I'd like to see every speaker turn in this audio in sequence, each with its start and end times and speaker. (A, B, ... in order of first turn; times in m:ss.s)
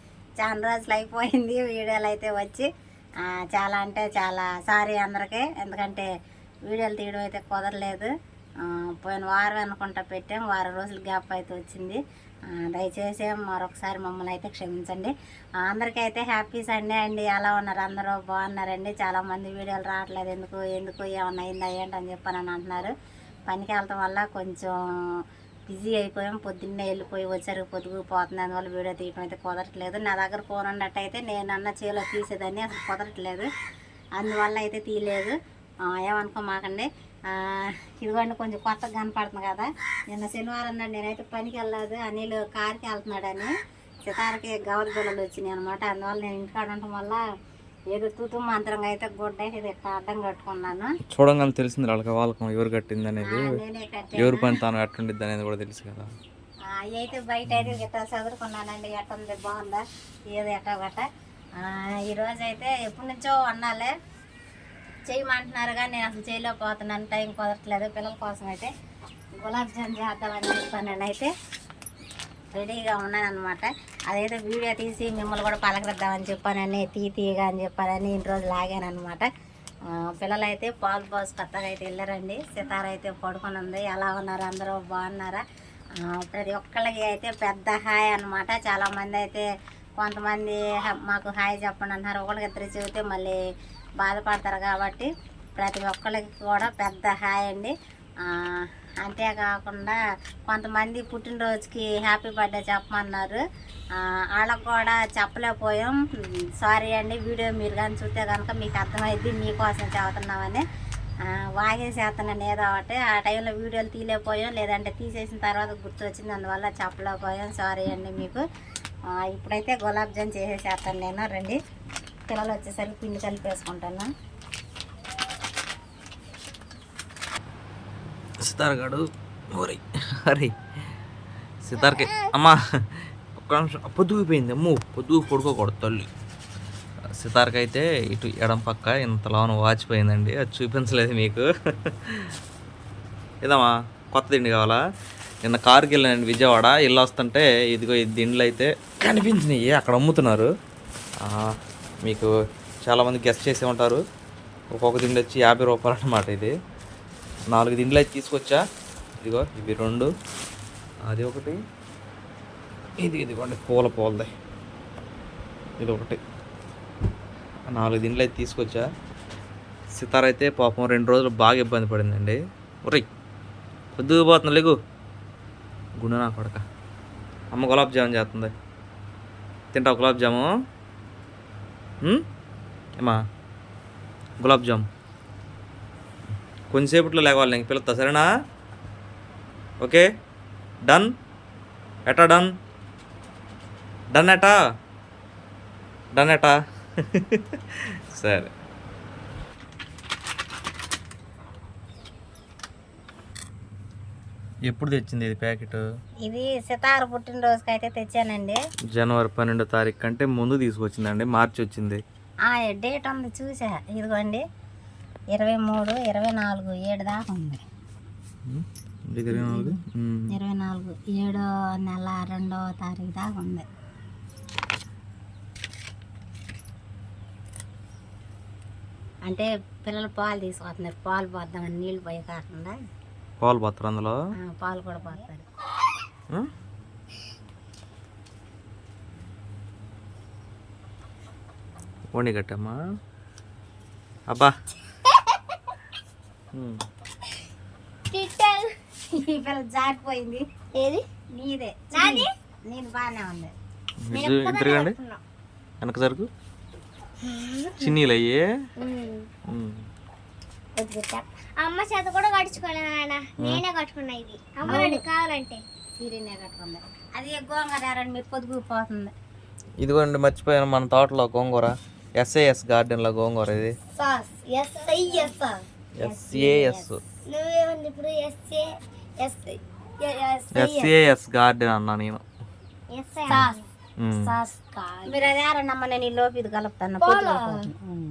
0:00.4-0:02.7 A
0:03.3-0:06.0 A
0:06.7-0:08.1 A
0:08.6-0:12.0 A
0:12.5-0:22.9 A
0:23.5-0:24.8 A
0:25.7-0:33.5 A
0:34.2-0:35.3 A
0:35.9-0:43.5 A
0:44.0-0:47.2 A
0:47.9-0:50.9 A
0:51.1-0:53.6 B
0:53.2-0:54.6 A
0:54.1-0:56.1 B
0:56.7-1:01.0 A
0:57.5-0:57.8 B
1:01.6-1:03.9 A
1:05.1-1:08.7 A
1:09.4-1:11.3 A
1:12.5-1:19.3 A
1:20.0-1:25.4 A
1:26.0-1:29.4 A
1:30.0-1:33.4 A
1:34.0-1:40.0 A
1:40.5-1:43.4 A
1:44.0-1:46.0 A
1:46.6-1:50.6 A
1:51.3-1:58.4 A
1:59.1-2:01.6 A
2:02.3-2:04.1 A
2:08.4-2:10.5 B
2:11.6-2:16.1 B
2:11.8-2:12.3 C
2:17.2-2:22.3 B
2:23.4-2:24.8 B
2:25.4-2:30.5 B
2:31.2-2:31.5 B
2:32.0-2:32.3 B
2:32.8-2:34.0 B
2:34.7-2:36.5 B
2:37.5-2:38.6 B
2:39.2-2:40.1 B
2:41.0-2:41.6 B
2:43.0-2:44.3 B
2:45.8-2:46.2 B
2:47.7-2:48.8 B
2:49.9-2:53.1 B
2:54.0-2:54.8 B
2:56.0-2:56.6 B
2:57.5-2:58.5 B
2:59.7-3:00.5 B
3:04.4-3:04.8 B
3:06.7-3:08.3 B
3:09.8-3:10.0 B
3:10.8-3:11.1 B
3:12.0-3:12.5 B
3:14.1-3:14.6 B
3:16.1-3:18.5 B
3:24.7-3:25.8 B
3:26.2-3:28.6 A
3:28.9-3:32.0 B
3:32.4-3:34.4 A
3:35.3-3:37.6 A
3:38.4-3:40.3 B
3:39.3-3:39.8 A
3:40.3-3:43.6 A
3:49.2-3:52.7 A
3:53.4-3:54.2 B
3:54.4-3:55.4 A
4:02.1-4:02.8 B
4:04.3-4:04.5 B
4:06.5-4:06.8 B
4:08.1-4:08.7 C
4:09.1-4:10.4 A
4:10.7-4:11.0 C
4:11.3-4:13.5 A
4:11.9-4:12.3 C
4:14.0-4:15.0 B
4:14.1-4:15.2 C
4:15.8-4:16.3 B
4:17.2-4:17.9 C
4:17.8-4:18.4 B
4:18.8-4:19.3 C
4:19.5-4:19.8 B
4:20.8-4:25.6 C
4:24.6-4:24.9 B
4:24.7-4:25.0 A
4:26.0-4:29.1 A
4:29.8-4:33.7 B
4:33.9-4:35.6 C
4:36.0-4:37.0 B
4:36.0-4:36.9 A
4:37.2-4:38.7 C
4:39.2-4:40.9 C
4:40.5-4:42.2 B
4:42.9-4:43.6 C
4:43.3-4:44.4 B
4:44.3-4:45.1 C
4:45.0-4:47.8 A
4:47.0-4:47.6 C